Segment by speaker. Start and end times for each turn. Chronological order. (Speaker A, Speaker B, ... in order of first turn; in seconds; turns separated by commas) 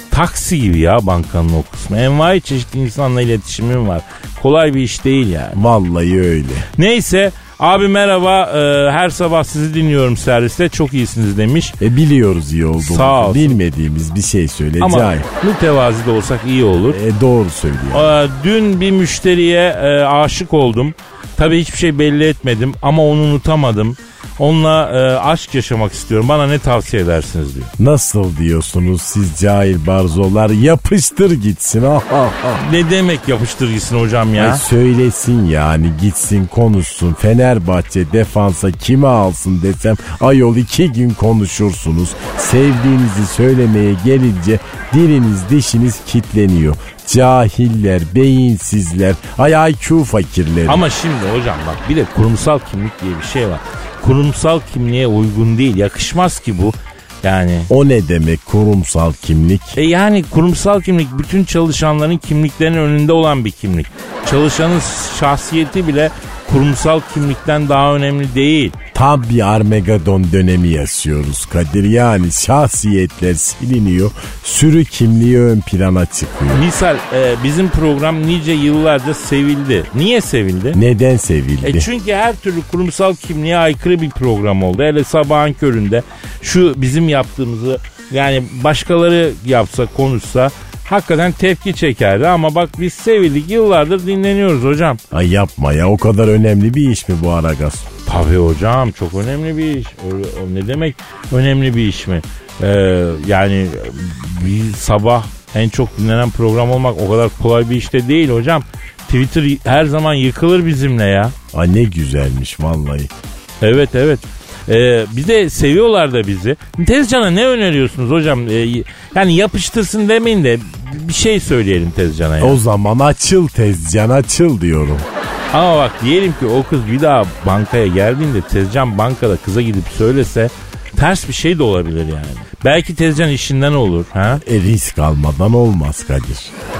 Speaker A: 0.1-5.6, Speaker B: 5.5-6.7, Speaker A: 6.8-11.8, Speaker B: 11.8-15.3, Speaker A: 12.8-13.6, Speaker A: 14.8-17.0, Speaker B: 16.9-18.1, Speaker A: 17.9-27.7, Speaker B: 27.8-32.6, Speaker A: 32.6-34.6, Speaker B: 34.4-50.9, Speaker A: 50.7-57.7, Speaker B: 57.7-59.8, Speaker A: 59.8-68.8, Speaker B: 68.9-76.7, Speaker A: 76.5-80.8, Speaker B: 80.7-81.9, Speaker A: 81.6-95.0, Speaker B: 95.1-97.9, Speaker A: 98.1-111.3, Speaker B: 111.5-113.1, Speaker A: 113.6-122.6, Speaker B: 122.4-125.1, Speaker A: 125.5-134.4, Speaker B: 134.4-136.5